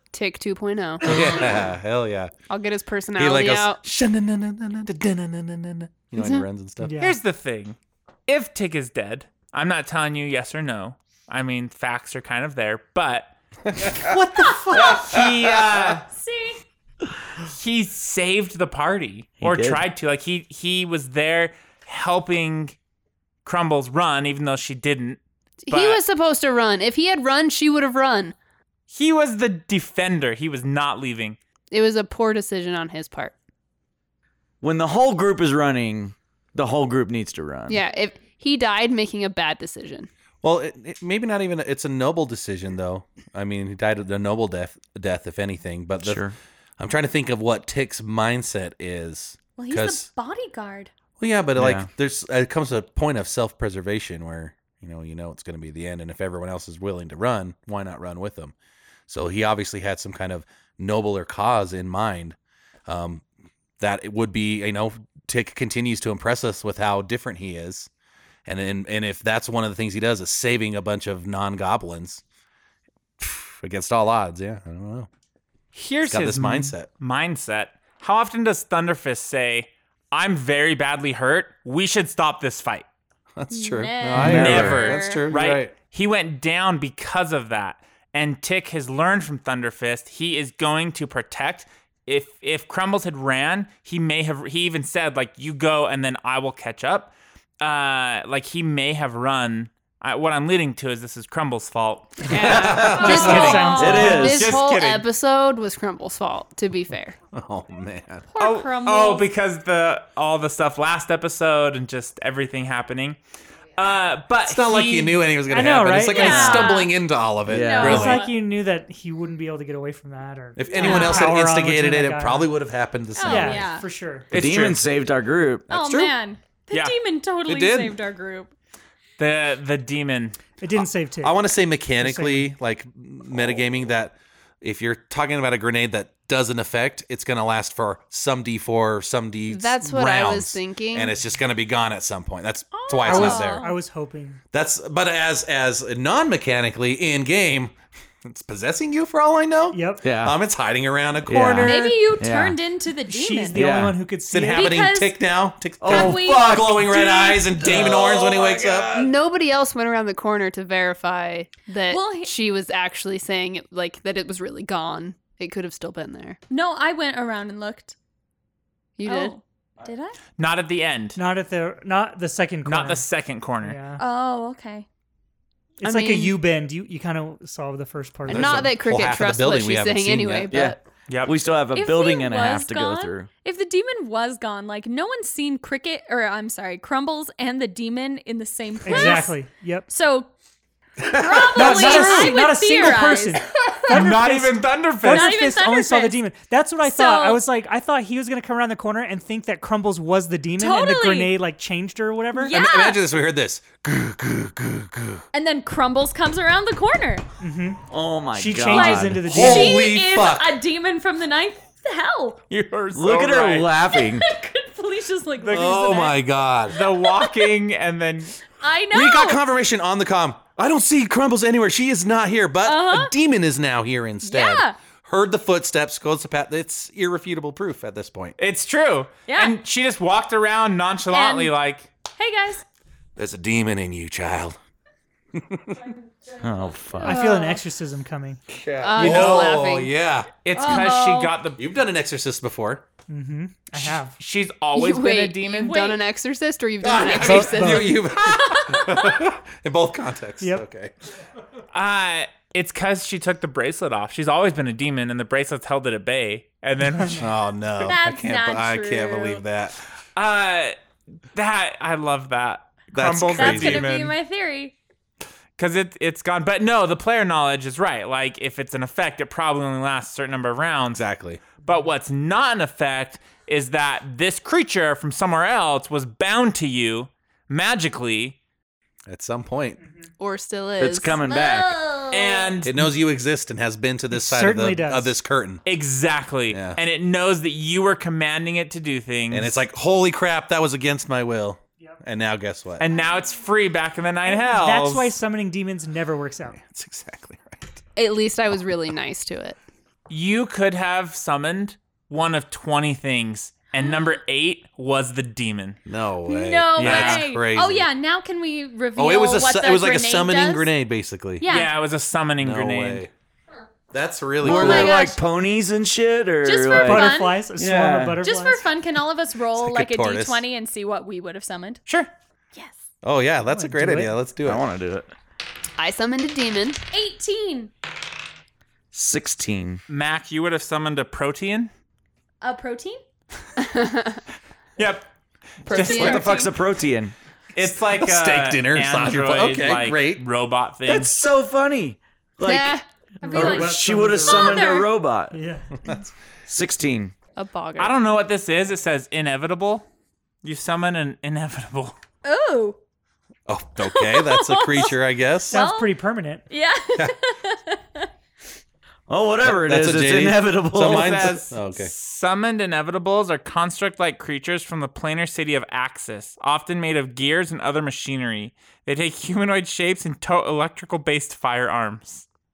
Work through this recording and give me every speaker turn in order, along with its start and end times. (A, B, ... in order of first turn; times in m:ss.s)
0:00.1-0:01.4 A
0:01.0-0:02.3 B
0:02.5-0:03.8 A
0:03.2-0:07.0 B
0:06.1-0:06.4 A
0:06.8-0:07.2 C
0:07.0-0:16.0 D
0:13.7-0:15.6 B
0:14.4-0:14.7 E
0:16.1-0:16.6 E
0:17.4-0:22.8 D
0:19.4-0:19.8 F
0:23.4-0:26.0 D
0:25.7-0:28.3 A
0:28.9-0:31.4 D
0:31.7-0:33.3 A
0:34.6-0:37.8 F
0:37.7-0:40.1 A
0:40.4-0:46.2 B
0:46.0-0:46.3 F
0:46.8-0:50.1 B
0:49.6-0:50.9 E
0:51.2-0:58.5 B
0:51.6-0:51.9 F
0:59.1-1:03.2 B
1:03.8-1:07.9 B
1:08.4-1:12.2 B
1:13.2-1:15.1 B
1:15.7-1:22.8 D
1:16.0-1:16.9 B
1:23.4-1:25.7 B
1:23.5-1:25.2 E
1:24.1-1:24.8 F
1:24.2-1:45.0 D
1:42.3-1:47.2 A
1:42.4-1:43.6 B
1:42.7-1:44.6 F
1:42.8-1:44.2 E
1:42.9-1:44.4 C
1:47.3-1:48.3 B
1:48.3-1:49.3 E
1:48.4-1:53.2 D
1:53.8-1:55.2 D
1:54.4-1:58.2 B
1:55.5-1:56.8 C
1:56.1-1:56.9 E
1:57.4-1:58.2 F
1:57.5-1:58.3 E
1:57.8-2:02.5 C
2:00.6-2:03.6 B
2:00.7-2:01.4 E
2:03.1-2:03.8 E
2:03.2-2:04.3 C
2:04.3-2:04.8 D
2:04.3-2:05.7 F
2:05.7-2:08.5 E
2:05.7-2:06.1 B
2:07.4-2:08.0 B
2:09.2-2:10.4 D
2:10.6-2:11.4 C
2:10.8-2:23.6 B
2:12.0-2:12.5 C
2:19.5-2:21.1 A
2:22.7-2:23.8 E
2:23.0-2:24.4 C
2:24.5-2:32.0 B
2:29.7-2:30.1 C
2:30.0-2:30.4 F
2:31.2-2:32.6 F
2:31.6-2:33.6 E
2:33.1-2:34.8 C
2:33.5-2:34.0 F
2:34.3-2:39.1 B
2:34.5-2:35.1 E
2:35.8-2:37.0 F
2:35.8-2:37.6 E
2:37.6-2:39.1 F
2:38.9-2:46.4 A
2:41.9-2:42.3 E
2:46.5-2:48.0 E
2:49.0-2:49.3 A
2:49.0-2:50.2 E
2:50.4-2:51.2 D
2:51.2-2:53.0 C
2:52.6-2:53.8 D
2:53.6-2:54.0 C
2:54.0-2:54.8 E
2:55.8-2:58.7 C
2:55.8-2:56.4 A
2:58.3-3:00.8 A
2:58.3-3:00.6 B
3:00.5-3:03.3 F
3:01.1-3:01.3 D
3:01.7-3:10.3 E
3:08.8-3:09.9 C
3:11.0-3:12.3 B
3:11.1-3:13.9 E
3:11.5-3:22.6 C
3:13.9-3:15.4 D
3:15.0-3:16.2 E
3:16.8-3:17.4 E
3:20.6-3:21.3 E
3:22.3-3:23.0 E
3:22.5-3:25.2 B
3:25.3-3:27.2 E
3:27.4-3:29.8 C
3:27.9-3:29.4 F
3:28.6-3:32.4 E
3:29.2-3:30.6 B
3:32.5-3:33.7 D
3:32.9-3:34.3 F
3:33.9-3:36.2 E
3:35.4-3:35.8 D
3:35.5-3:36.8 B
3:36.7-3:38.4 D
3:36.7-3:37.5 E
3:38.6-3:39.4 E
3:38.9-3:48.3 B
3:42.6-3:43.1 E
3:44.2-3:44.8 E
3:48.4-3:51.9 D
3:49.3-3:49.6 E
3:51.1-3:51.5 E
3:52.2-3:52.6 E
3:53.2-3:54.6 B
3:55.3-3:55.8 B
3:56.4-3:57.2 F
3:56.9-3:57.5 E
3:57.0-3:58.4 C
3:57.0-3:57.6 A
3:58.5-4:00.9 B
3:58.8-3:59.9 A
3:59.0-3:59.5 D
4:00.4-4:01.6 D
4:00.5-4:01.3 E
4:01.6-4:02.8 B
4:03.1-4:04.2 C
4:03.7-4:05.8 D
4:04.7-4:08.0 A
4:05.6-4:06.0 E
4:06.8-4:10.9 B
4:07.2-4:08.0 C
4:08.2-4:09.2 E
4:11.7-4:17.3 D
4:17.2-4:19.8 B
4:17.8-4:19.4 E
4:20.2-4:20.8 D
4:21.3-4:24.1 D
4:22.9-4:23.8 B
4:23.3-4:24.8 E
4:25.6-4:31.0 D
4:30.9-4:31.4 B
4:31.6-4:38.4 D
4:39.1-4:39.8 B
4:39.8-4:40.1 C
4:40.2-4:41.2 A
4:40.8-4:41.8 F
4:41.2-4:42.6 E
4:42.1-4:42.7 D
4:42.6-4:45.6 B
4:44.1-4:45.1 C
4:45.6-4:49.6 D
4:46.5-4:46.8 B
4:49.3-4:52.8 B
4:52.8-4:55.1 D
4:54.2-4:56.6 C
4:56.6-4:57.8 B
4:58.0-4:59.6 A
5:00.1-5:05.8 D
5:05.8-5:07.9 B
5:06.2-5:10.7 E
5:06.8-5:07.3 D
5:09.0-5:11.4 B
5:11.4-5:11.7 E
5:11.5-5:13.0 D
5:12.4-5:13.1 B
5:13.9-5:15.0 B
5:14.4-5:15.2 E
5:14.4-5:18.2 F
5:16.4-5:17.4 E
5:16.7-5:18.7 C
5:18.2-5:21.8 E
5:19.5-5:20.4 B
5:23.0-5:24.6 B
5:23.5-5:24.2 C
5:24.4-5:25.1 F
5:25.8-5:26.8 A
5:26.9-5:27.7 E
5:28.9-5:29.8 F
5:29.9-5:31.7 D
5:32.4-5:33.0 E
5:33.6-5:34.2 A
5:34.8-5:35.1 D
5:35.6-5:36.3 D
5:35.6-5:36.4 A
5:35.7-5:36.5 E
5:35.8-5:37.1 F
5:37.5-5:41.2 D
5:37.6-5:40.2 B
5:40.9-5:42.8 F
5:42.4-5:42.8 A
5:43.2-5:44.9 E
5:43.2-5:45.7 C
5:43.3-5:45.4 F
5:46.4-5:47.1 F
5:47.4-5:47.9 A
5:47.8-5:49.8 D
5:50.4-5:52.0 D
5:52.2-5:52.8 E
5:53.5-5:55.6 B
5:53.8-5:54.9 E
5:55.5-5:56.4 C
5:55.5-5:55.9 E
5:56.5-5:58.1 E
5:59.1-6:01.3 F
5:59.4-6:01.9 B
6:00.8-6:12.2 D